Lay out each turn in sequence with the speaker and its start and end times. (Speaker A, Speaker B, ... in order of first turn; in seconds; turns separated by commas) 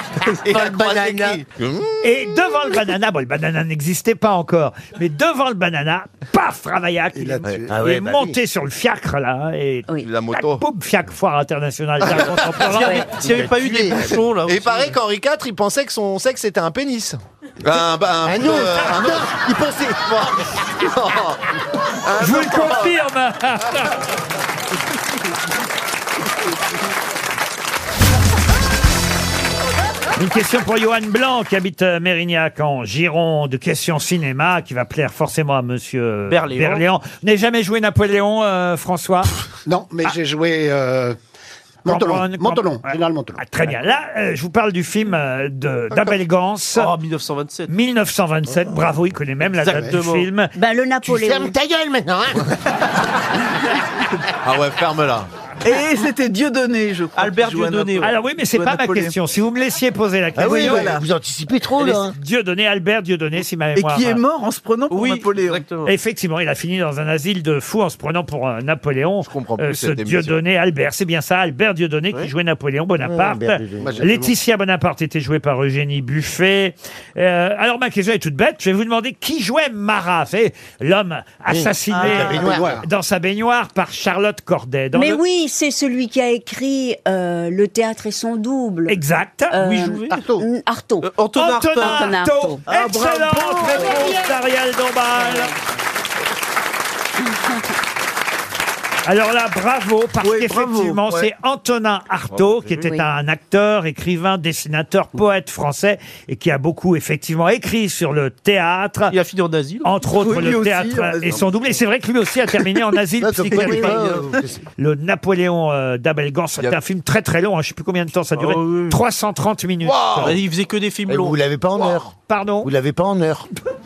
Speaker A: 0.4-2.0, Speaker B: 0.5-1.4, Speaker C: 2.0-13.1, Speaker D: 7.1-7.7, Speaker B: 7.7-8.4, Speaker A: 10.0-10.6, Speaker A: 12.1-12.5, Speaker E: 12.6-14.9, Speaker B: 13.1-14.2, Speaker A: 14.4-19.4, Speaker B: 18.2-20.3, Speaker A: 20.0-21.4, Speaker A: 21.9-22.9, Speaker C: 22.1-23.9, Speaker C: 30.2-39.3, Speaker E: 36.3-36.8, Speaker D: 39.6-41.2, Speaker D: 41.8-43.4, Speaker C: 41.9-46.9, Speaker E: 46.8-47.7, Speaker C: 47.7-50.5, Speaker E: 49.5-50.3, Speaker F: 50.5-51.5, Speaker B: 51.0-52.5, Speaker A: 54.4-55.3, Speaker G: 55.6-59.1, Speaker E: 57.1-58.1, Speaker C: 58.0-61.0, Speaker B: 60.4-62.1, Speaker G: 60.4-61.0, Speaker C: 61.8-64.2, Speaker G: 63.7-65.6, Speaker E: 64.9-65.9, Speaker C: 65.8-85.2, Speaker A: 69.2-70.3, Speaker B: 73.0-74.2, Speaker B: 81.5-82.8, Speaker D: 82.3-82.8, Speaker F: 84.9-89.0, Speaker C: 88.9-89.6, Speaker F: 89.5-91.1, Speaker E: 89.6-90.2, Speaker D: 90.1-90.4, Speaker E: 91.0-92.1, Speaker C: 91.3-95.5, Speaker F: 91.8-92.6, Speaker G: 92.7-94.2, Speaker F: 93.6-94.2, Speaker F: 95.2-95.5, Speaker C: 99.0-109.1, Speaker G: 100.2-101.3, Speaker A: 102.3-102.7, Speaker E: 109.1-109.9, Speaker C: 109.8-114.1, Speaker G: 110.1-111.5, Speaker B: 113.2-114.6, Speaker E: 113.5-114.3, Speaker C: 114.8-120.3, Speaker E: 118.3-119.0, Speaker A: 119.8-120.4, Speaker E: 120.2-121.4, Speaker B: 121.1-122.1, Speaker C: 122.3-122.7, Speaker B: 122.6-123.5